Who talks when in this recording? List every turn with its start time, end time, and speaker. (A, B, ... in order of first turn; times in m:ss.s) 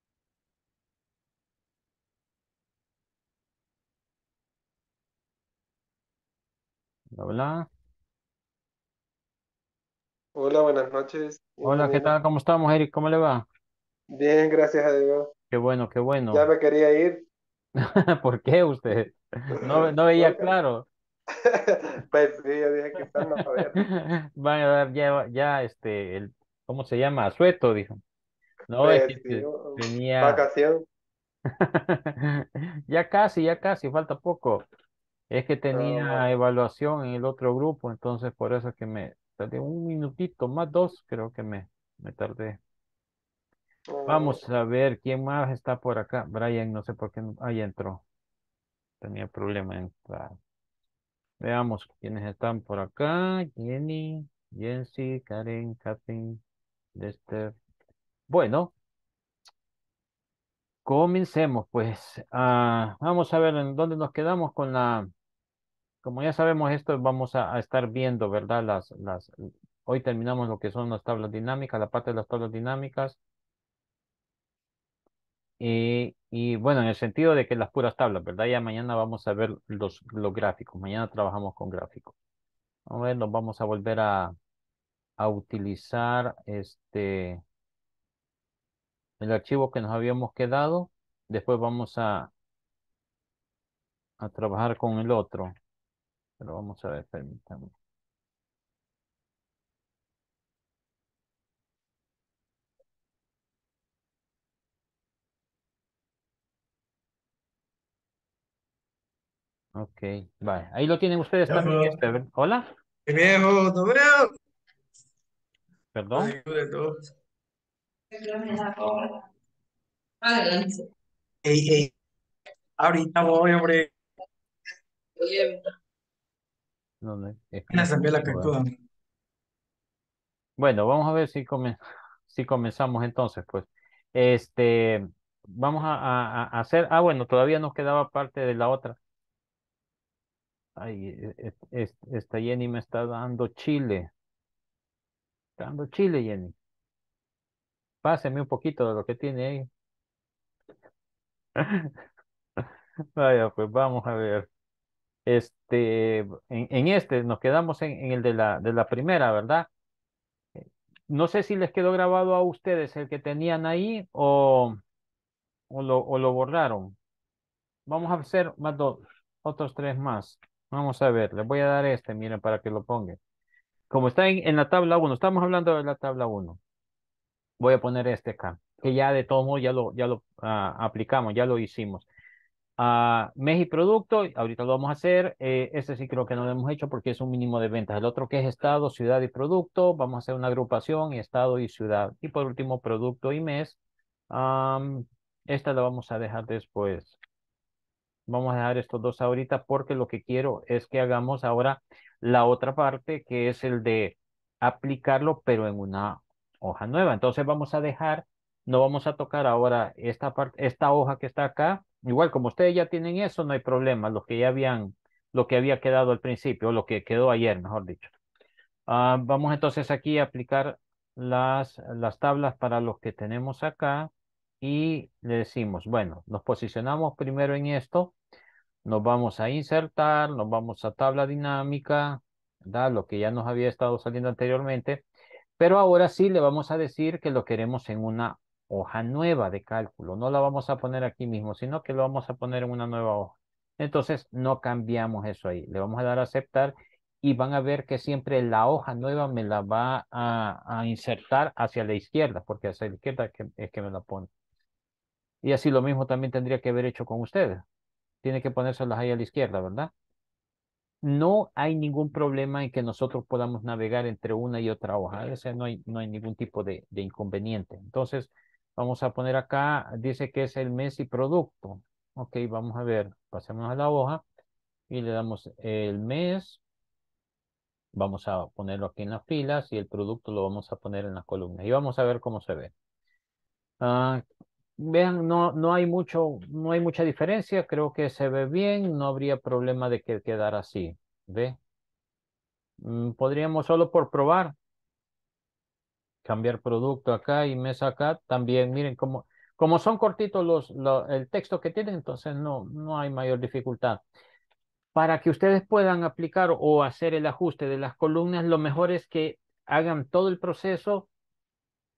0:07.1-0:07.7 A
0:10.4-0:12.1 B
0:11.6-0:13.4 A
0:14.1-0:15.3 B
0:15.5-0:16.5 A
0:16.3-0:17.2 B
0:17.8-0:20.8 A
0:19.5-0:20.5 B
0:21.4-0:23.8 B
0:23.4-0:28.0 A
0:28.7-0:30.4 A
0:28.8-0:30.8 B
0:31.5-0:34.6 A
0:35.3-0:42.6 A
0:35.7-0:36.2 B
0:43.9-0:44.4 B
0:44.0-0:48.0 A
0:49.0-0:50.4 A
0:51.4-0:56.4 A
0:57.0-0:57.5 A
0:58.3-0:58.7 A
1:00.8-1:05.1 A
1:06.0-1:09.3 A
1:09.8-1:13.2 A
1:15.6-1:22.2 A
1:22.9-1:24.3 A
1:25.2-1:27.4 A
1:29.2-1:32.3 A
1:34.2-1:35.5 A
1:36.4-1:37.7 A
1:49.8-1:52.6 A
1:51.5-1:51.9 C
1:53.1-1:54.3 C
1:55.9-1:56.3 A
1:56.1-1:57.0 C
1:58.1-1:59.1 C
2:00.2-2:00.8 C
2:01.4-2:01.9 C
2:02.8-2:03.9 C
2:05.2-2:05.6 C
2:07.0-2:08.5 A
2:07.7-2:08.7 C
2:10.6-2:11.8 A
2:12.3-2:19.0 A
2:20.8-2:24.1 A
2:25.6-2:26.5 A
2:28.0-2:29.7 A
2:31.6-2:31.9 A
2:33.2-2:34.5 A
2:35.2-2:39.7 A
2:40.6-2:44.8 A
2:45.7-2:47.0 A
2:47.9-2:53.2 A
2:53.9-2:56.6 A
2:57.6-3:02.0 A
3:02.8-3:13.8 A
3:14.3-3:17.1 A
3:18.3-3:38.1 A
3:38.9-3:44.1 A
3:44.6-3:48.2 A
3:48.8-3:55.0 A
3:55.6-4:14.3 A
4:15.4-4:17.6 A
4:18.2-4:19.9 A
4:21.0-4:34.2 A
4:34.9-4:36.6 A
4:37.9-4:42.7 A
4:43.8-4:44.2 A
4:44.8-4:51.6 A
4:52.8-4:54.6 A
4:56.2-5:04.0 A
5:04.9-5:11.1 A